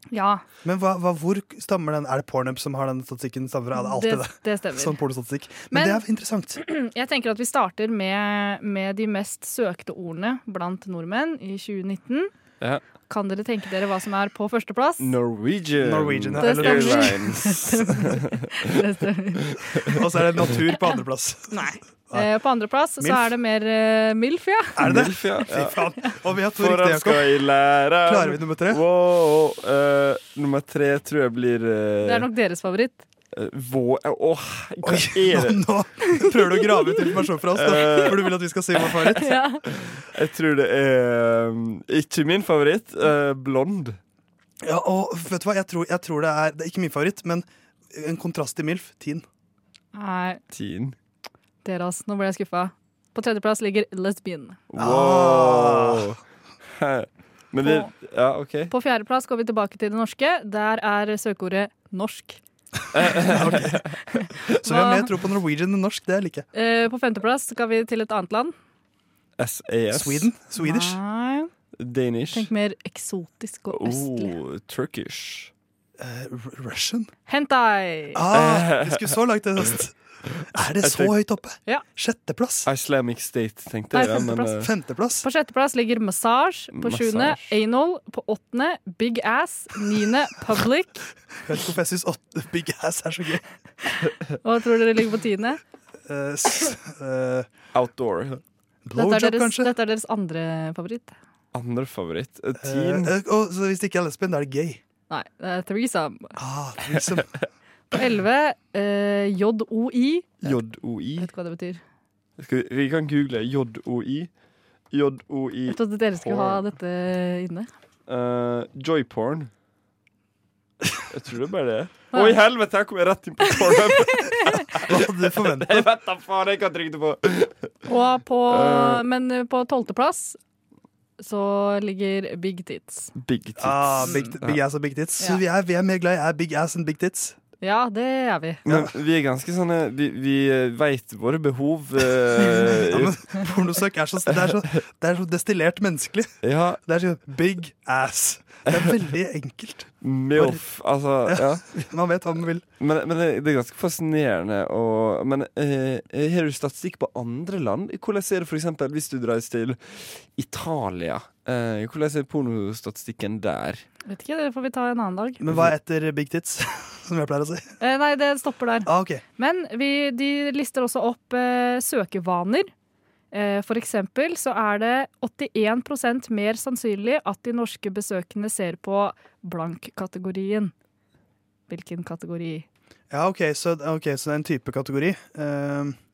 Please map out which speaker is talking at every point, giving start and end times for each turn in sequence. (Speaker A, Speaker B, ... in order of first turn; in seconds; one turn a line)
Speaker A: 0.1-0.5
Speaker B: 0.6-6.6
Speaker A: 3.8-5.0
Speaker A: 5.7-6.0
Speaker A: 6.6-12.3
Speaker A: 13.1-15.1
Speaker C: 15.0-18.5
Speaker B: 15.8-17.5
Speaker A: 16.4-20.0
Speaker B: 19.9-21.6
Speaker A: 21.5-24.8
Speaker B: 23.0-23.3
Speaker B: 24.8-27.3
Speaker C: 24.8-25.8
Speaker C: 26.6-32.3
Speaker B: 28.1-28.8
Speaker A: 32.0-33.0
Speaker C: 33.3-35.6
Speaker B: 34.8-39.3
Speaker C: 37.6-38.3
Speaker A: 39.2-39.6
Speaker C: 39.7-44.0
Speaker B: 44.6-49.2
Speaker A: 50.0-50.4
Speaker C: 50.5-51.0
Speaker A: 51.6-54.6
Speaker C: 54.7-56.2
Speaker B: 54.8-56.1
Speaker C: 56.8-58.7
Speaker A: 57.6-57.9
Speaker A: 58.7-62.4
Speaker C: 63.0-63.9
Speaker B: 63.2-63.8
Speaker A: 64.2-65.1
Speaker B: 64.6-66.5
Speaker A: 66.5-68.5
Speaker C: 69.4-70.3
Speaker B: 69.9-71.0
Speaker A: 70.6-71.5
Speaker C: 71.8-72.5
Speaker A: 72.3-74.3
Speaker C: 73.7-75.5
Speaker B: 76.0-77.1
Speaker A: 77.3-78.2
Speaker B: 78.2-80.0
Speaker C: 78.3-79.1
Speaker B: 80.5-82.7
Speaker C: 80.8-81.2
Speaker C: 82.7-84.7
Speaker A: 83.9-84.7
Speaker B: 84.6-85.3
Speaker A: 85.2-91.0
Speaker C: 86.7-87.5
Speaker B: 91.5-93.5
Speaker A: 94.4-95.6
Speaker B: 96.1-97.5
Speaker C: 97.7-98.4
Speaker B: 98.8-99.7
Speaker A: 99.0-101.2
Speaker C: 101.5-103.1
Speaker B: 102.6-104.8
Speaker A: 105.1-106.4
Speaker B: 106.4-107.3
Speaker A: 107.9-110.6
Speaker C: 110.4-111.3
Speaker A: 111.2-111.8
Speaker C: 112.4-114.3
Speaker C: 114.9-116.6
Speaker A: 115.7-117.7
Speaker C: 118.1-119.5
Speaker C: 121.1-127.7
Speaker A: 122.1-122.4
Speaker A: 123.4-124.6
Speaker B: 124.8-125.9
Speaker A: 127.9-130.4
Speaker C: 128.5-129.0
Speaker A: 131.2-133.1
Speaker C: 133.2-134.6
Speaker B: 133.6-137.4
Speaker A: 134.0-134.3
Speaker A: 137.6-138.6
Speaker C: 138.7-143.2
Speaker B: 138.7-138.9
Speaker B: 142.9-150.6
Speaker C: 146.4-146.8
Speaker C: 150.0-151.6
Speaker B: 151.3-152.7
Speaker C: 152.8-163.8
Speaker A: 164.1-165.4
Speaker B: 165.4-167.7
Speaker A: 167.8-172.7
Speaker B: 168.8-169.2
Speaker A: 173.3-180.7
Speaker A: 181.7-182.7
Speaker B: 183.1-186.0